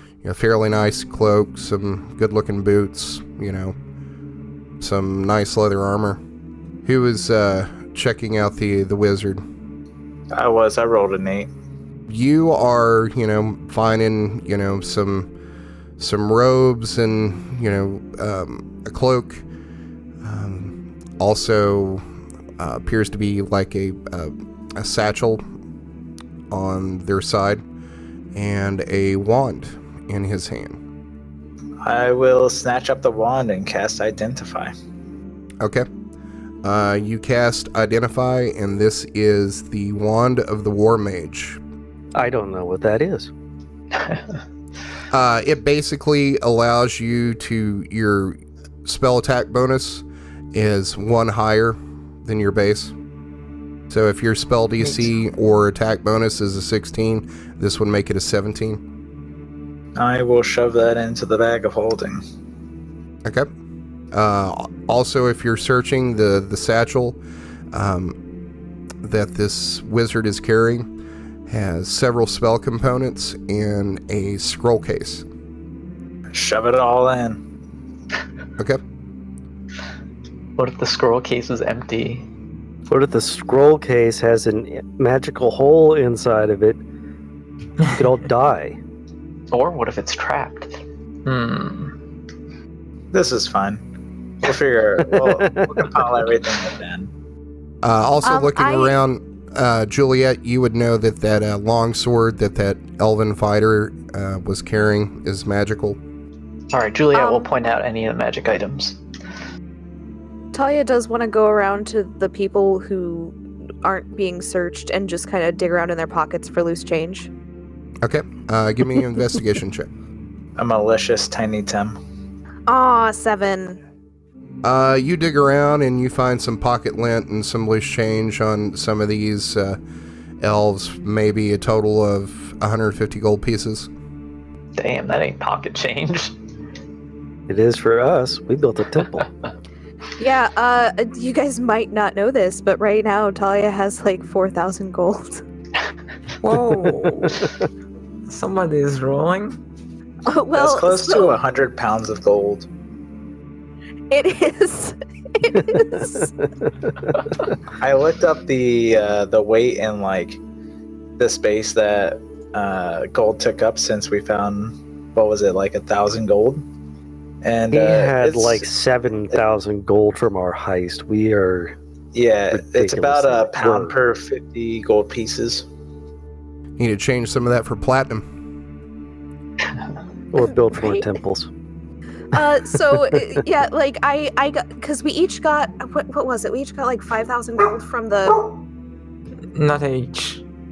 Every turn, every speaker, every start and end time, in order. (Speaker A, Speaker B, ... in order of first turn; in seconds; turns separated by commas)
Speaker A: 0.2-3.8, Speaker A: 4.8-6.2, Speaker A: 6.8-9.4, Speaker B: 10.3-11.5, Speaker A: 12.1-15.3, Speaker A: 16.0-19.4, Speaker A: 20.2-22.0, Speaker A: 22.6-25.4, Speaker A: 26.5-27.6, Speaker A: 28.4-30.8, Speaker B: 31.8-34.7, Speaker A: 35.6-35.9, Speaker A: 36.6-41.6, Speaker C: 42.2-43.3, Speaker D: 44.0-44.2, Speaker A: 45.1-53.0, Speaker A: 53.9-58.8, Speaker B: 60.0-62.2, Speaker A: 64.1-67.2, Speaker A: 67.7-68.2, Speaker A: 69.0-70.9, Speaker A: 71.5-75.2, Speaker B: 76.3-77.4, Speaker D: 80.6-82.3, Speaker C: 82.9-86.8, Speaker C: 87.9-88.8, Speaker D: 89.5-92.0, Speaker B: 93.1-93.8, Speaker B: 94.4-97.1, Speaker C: 95.2-95.8, Speaker A: 97.8-106.0, Speaker E: 98.2-99.0, Speaker D: 106.7-109.0, Speaker E: 107.1-107.5, Speaker E: 110.5-117.3, Speaker A: 118.0-119.9, Speaker B: 120.6-122.0, Speaker E: 122.7-123.8, Speaker A: 124.6-129.8, Speaker A: 130.4-133.9, Speaker D: 134.8-136.4, Speaker C: 137.5-139.3, Speaker E: 140.2-145.4, Speaker F: 146.4-147.5, Speaker F: 148.3-149.6, Speaker E: 150.3-151.4, Speaker B: 150.5-152.7, Speaker E: 154.1-156.3, Speaker C: 155.6-156.3, Speaker B: 157.8-160.4, Speaker B: 161.2-166.6, Speaker B: 167.4-168.7, Speaker C: 167.7-171.8, Speaker B: 172.2-175.7, Speaker C: 172.5-173.9, Speaker A: 176.8-178.2, Speaker C: 180.3-181.5, Speaker E: 182.3-188.5, Speaker C: 182.9-183.2, Speaker F: 189.6-190.4